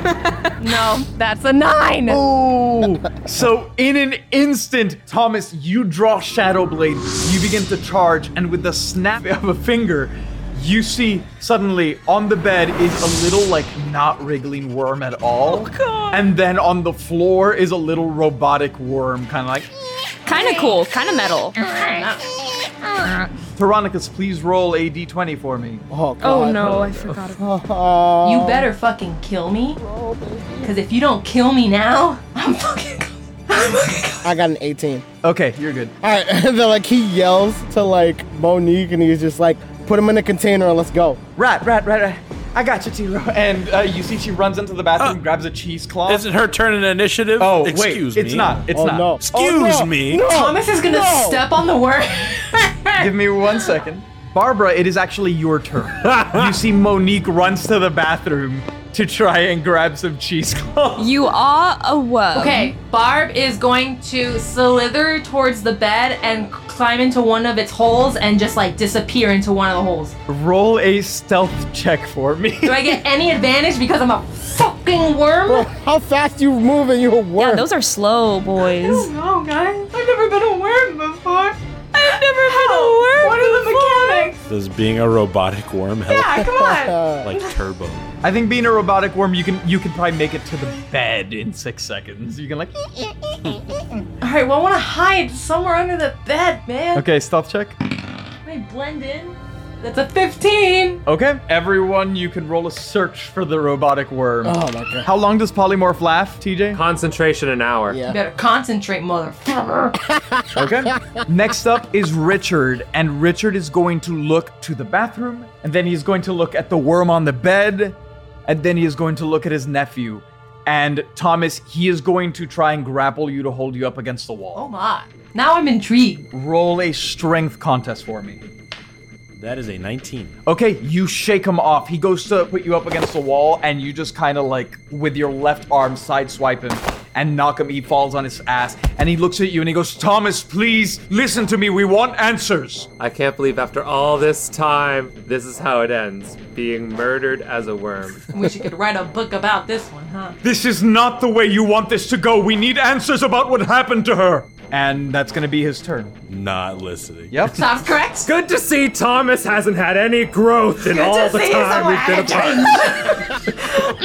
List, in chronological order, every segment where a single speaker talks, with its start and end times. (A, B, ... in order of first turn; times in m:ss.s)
0:00.6-0:02.2 A
0:02.1-0:19.7 B
0:15.5-0:16.3 A
0:20.3-0:21.6 C
0:20.3-0:20.8 A
0:21.6-0:23.0 A
0:23.6-0:25.9 B
0:25.9-0:28.7 D
0:26.2-0:27.4 C
0:28.2-0:29.8 A
0:29.8-0:30.7 D
0:30.6-0:34.4 A
0:34.2-0:35.1 D
0:35.2-0:35.9 B
0:36.0-0:41.2 D
0:41.4-0:46.3 B
0:46.1-0:48.6 E
0:47.4-0:49.8 B
0:48.7-0:51.4 D
0:49.2-0:50.3 E
0:50.2-0:53.1 A
0:53.0-1:01.1 B
1:01.0-1:02.7 C
1:02.3-1:10.2 A
1:10.3-1:13.0 B
1:12.6-1:15.7 A
1:15.5-1:17.7 D
1:17.4-1:19.1 C
1:18.7-1:24.5 A
1:22.7-1:24.3 C
1:24.4-1:28.0 E
1:26.1-1:27.6 A
1:26.5-1:27.3 D
1:28.2-1:33.4 B
1:34.2-1:37.0 A
1:36.9-1:37.8 B
1:38.4-1:41.0 A
1:41.1-1:46.8 B
1:44.4-1:45.1 D
1:46.7-1:48.0 F
1:47.9-1:48.2 D
1:48.0-1:50.0 A
1:50.2-1:50.6 D
1:50.6-2:04.6 B
2:04.6-2:06.3 A
2:06.3-2:08.4 B
2:09.4-2:10.3 E
2:10.5-2:22.9 B
2:23.0-2:28.2 F
2:28.3-2:30.4 A
2:30.4-2:36.2 B
2:36.3-2:37.5 E
2:37.3-2:37.6 B
2:37.5-2:38.3 A
2:38.2-2:43.4 F
2:40.9-2:43.9 A